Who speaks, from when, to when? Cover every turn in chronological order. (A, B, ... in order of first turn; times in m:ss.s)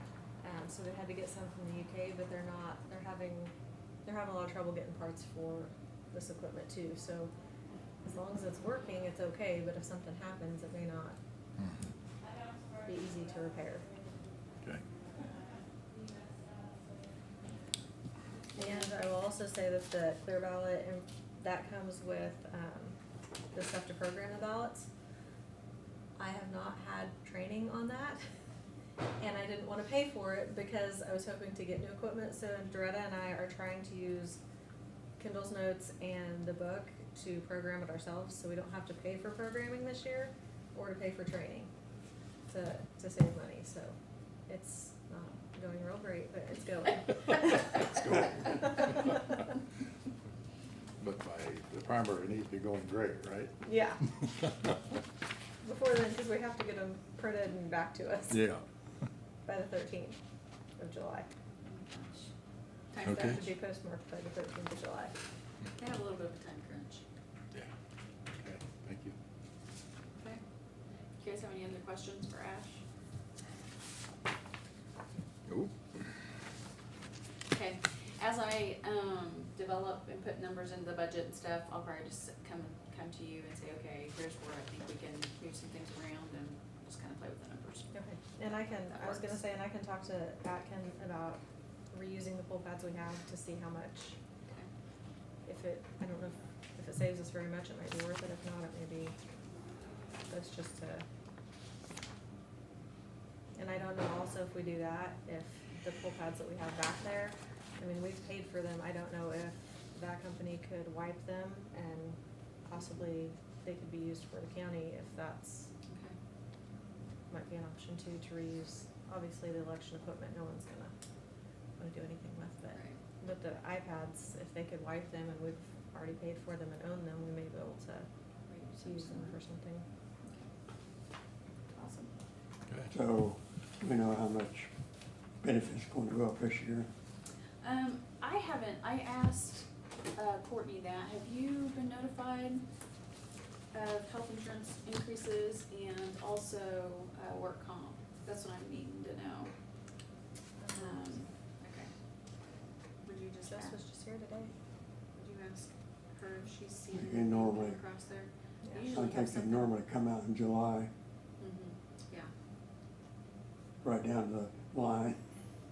0:00.4-0:03.5 A
0:04.0-0:07.3 A
0:08.0-0:11.2 A
0:12.4-0:12.8 B
0:12.8-0:13.9 A
0:18.5-0:23.0 A
0:23.5-0:24.9 A
0:26.2-0:28.2 A
0:29.2-0:34.4 A
0:35.2-0:41.7 A
0:42.5-0:44.0 A
0:44.5-0:47.6 A
0:47.8-0:49.3 C
0:48.5-0:49.2 A
0:51.0-0:53.5 C
0:53.6-0:54.0 A
0:55.6-0:58.5 A
0:58.3-0:58.6 C
0:59.4-1:00.2 A
1:00.8-1:01.3 A
1:01.6-1:02.3 B
1:02.9-1:03.4 B
1:03.0-1:05.1 A
1:03.0-1:03.4 C
1:05.8-1:07.0 B
1:08.4-1:09.1 C
1:11.2-1:12.8 B
1:15.5-1:16.1 C
1:17.5-1:27.9 B
1:27.9-1:31.4 A
1:28.7-1:29.4 B
1:31.9-1:34.2 A
1:35.4-1:39.1 A
1:40.3-1:41.0 A
1:43.6-1:55.7 A
1:55.9-1:56.2 B
1:57.3-2:00.9 A
2:01.8-2:08.1 A
2:02.7-2:03.0 B
2:08.5-2:09.4 B
2:08.8-2:09.9 A
2:10.2-2:10.5 B
2:11.7-2:12.1 B
2:12.9-2:14.7 D
2:15.4-2:16.9 D
2:17.6-2:22.6 B
2:23.7-2:29.5 B
2:30.6-2:31.2 A
2:30.7-2:31.9 B
2:33.0-2:33.8 B
2:33.4-2:34.5 A
2:35.1-2:39.7 B
2:36.9-2:37.8 D
2:38.6-2:39.0 A
2:38.9-2:40.9 D
2:41.4-2:42.3 B
2:43.8-2:45.2 D